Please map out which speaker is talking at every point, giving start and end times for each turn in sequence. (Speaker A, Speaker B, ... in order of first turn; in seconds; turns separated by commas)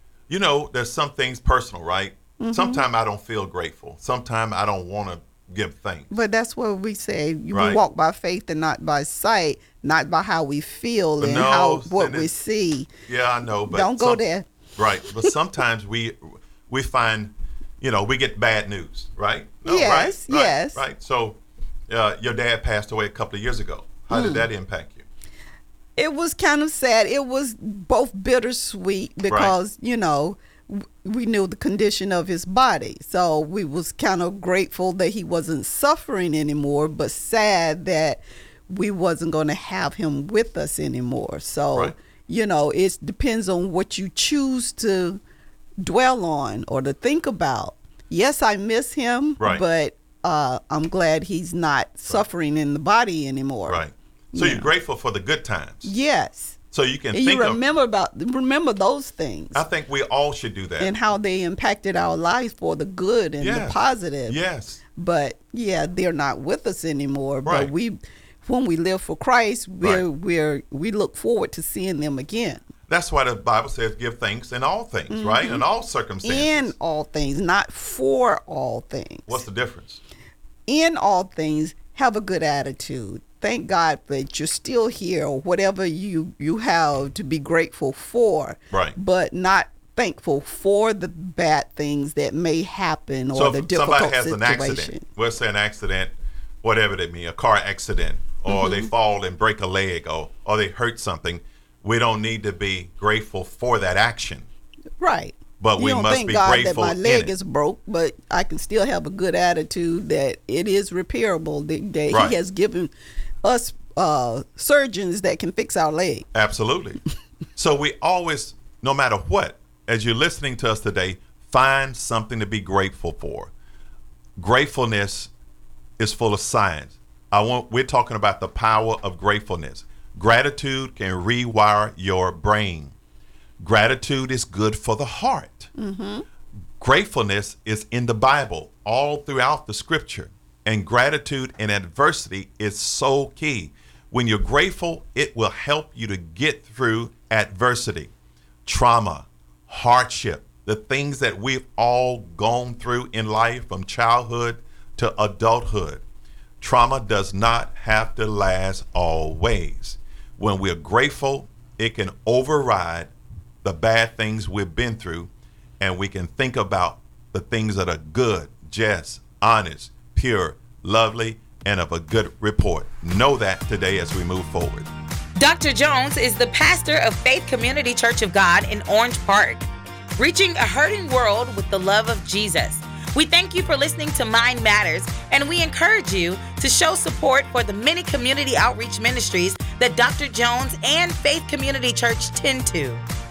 Speaker A: 0.3-6.1, Speaker B: 2.4-2.9, Speaker B: 6.1-12.9, Speaker A: 7.5-7.8, Speaker A: 11.2-12.3, Speaker A: 13.1-14.2, Speaker B: 13.7-14.5, Speaker A: 14.8-25.1, Speaker B: 19.6-20.8, Speaker B: 24.1-24.5, Speaker B: 26.0-45.2, Speaker A: 29.3-29.6, Speaker B: 45.8-54.7, Speaker A: 53.7-55.9, Speaker B: 55.8-56.6, Speaker A: 56.7-57.6, Speaker B: 57.1-59.6, Speaker A: 59.5-60.9, Speaker B: 60.8-64.4, Speaker A: 63.4-64.8, Speaker B: 65.0-72.6, Speaker A: 67.5-67.7, Speaker A: 72.9-76.7, Speaker B: 75.1-75.6, Speaker B: 76.2-79.4, Speaker A: 79.3-80.0, Speaker B: 80.7-95.0, Speaker A: 88.7-89.0, Speaker A: 93.3-104.5, Speaker B: 98.5-98.9, Speaker B: 105.0-112.9, Speaker A: 105.6-107.3, Speaker A: 112.1-112.4, Speaker B: 113.4-116.3, Speaker A: 116.3-117.0, Speaker A: 117.6-123.5, Speaker A: 124.4-125.3, Speaker A: 126.0-132.9, Speaker A: 133.6-135.7, Speaker B: 135.8-136.2, Speaker A: 136.8-148.1, Speaker A: 148.7-156.0, Speaker A: 156.6-163.1, Speaker A: 163.6-174.9, Speaker C: 175.4-193.0